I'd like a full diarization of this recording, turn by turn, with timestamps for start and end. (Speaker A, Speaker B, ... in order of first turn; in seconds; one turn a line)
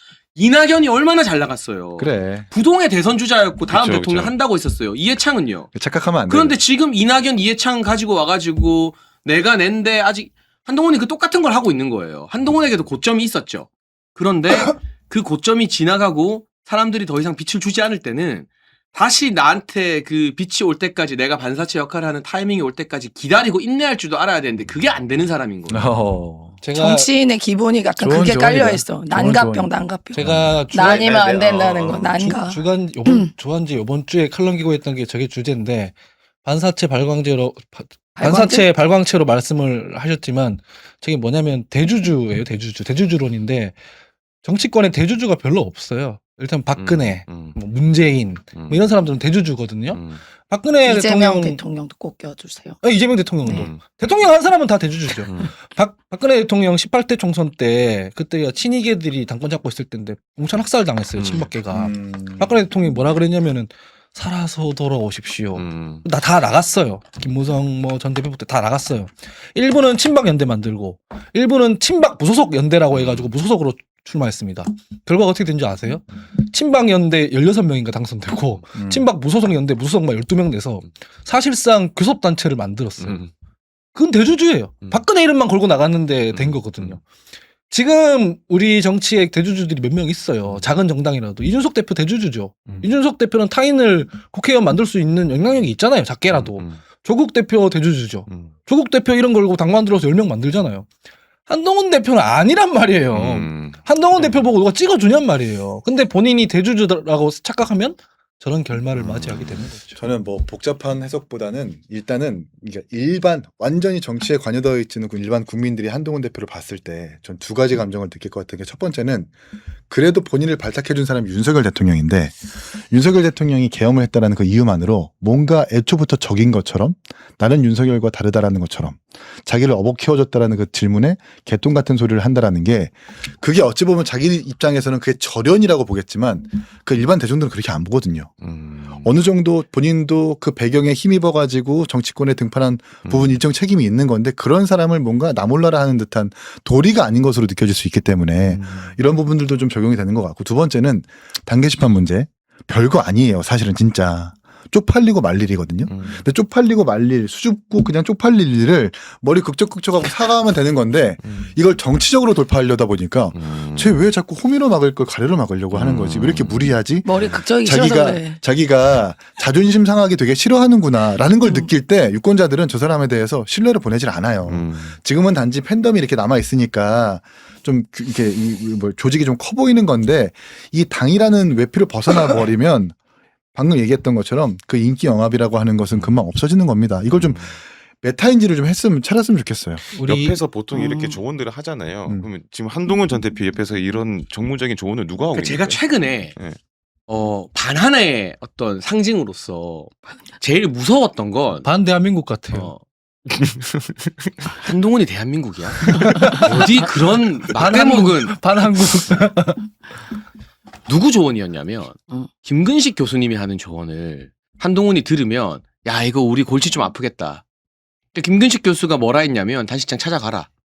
Speaker A: 0.3-5.7
Speaker B: 2.0-2.5
Speaker C: 3.7-4.3
Speaker B: 5.7-6.6
Speaker A: 6.3-25.9
Speaker B: 25.7-26.6
Speaker D: 26.6-27.1
Speaker E: 26.8-33.3
Speaker B: 28.0-30.6
Speaker D: 30.1-31.0
Speaker C: 30.4-32.1
Speaker D: 32.0-43.8
Speaker E: 38.1-38.6
Speaker D: 44.4-51.6
Speaker C: 46.8-47.5
Speaker C: 48.5-48.8
Speaker C: 49.9-50.2
Speaker E: 50.8-52.8
Speaker D: 52.8-83.2
Speaker C: 53.5-53.8
Speaker C: 61.2-61.5
Speaker B: 61.7-62.6
Speaker C: 65.5-66.0
Speaker C: 72.9-73.3
Speaker B: 78.8-79.0
Speaker C: 83.0-83.3
Speaker D: 83.9-87.0
Speaker C: 86.3-87.0
Speaker D: 87.7-100.9
Speaker C: 96.3-96.8
Speaker D: 101.5-110.0
Speaker C: 103.1-104.4
Speaker C: 109.0-109.6
Speaker B: 109.2-119.3
Speaker B: 119.9-122.3
Speaker B: 122.9-138.3
Speaker C: 138.4-139.1
Speaker B: 139.0-182.9
Speaker C: 143.1-143.4
Speaker C: 148.5-149.0
Speaker C: 155.9-156.2
Speaker C: 161.2-161.5
Speaker C: 163.3-164.0
Speaker C: 165.7-167.4
Speaker E: 167.0-168.4
Speaker E: 171.4-171.7
Speaker C: 174.5-174.9
Speaker B: 183.5-189.8
Speaker C: 187.1-187.6
Speaker D: 189.9-190.4
Speaker C: 190.0-196.6
Speaker E: 190.7-191.2
Speaker A: 195.3-196.3
Speaker A: 197.1-201.7
Speaker D: 201.6-202.7
Speaker A: 202.5-202.8
Speaker C: 203.4-204.3
Speaker A: 204.6-208.5
Speaker D: 206.1-206.7
Speaker C: 206.5-206.8
Speaker D: 207.5-209.6
Speaker A: 210.9-217.4
Speaker A: 218.1-220.5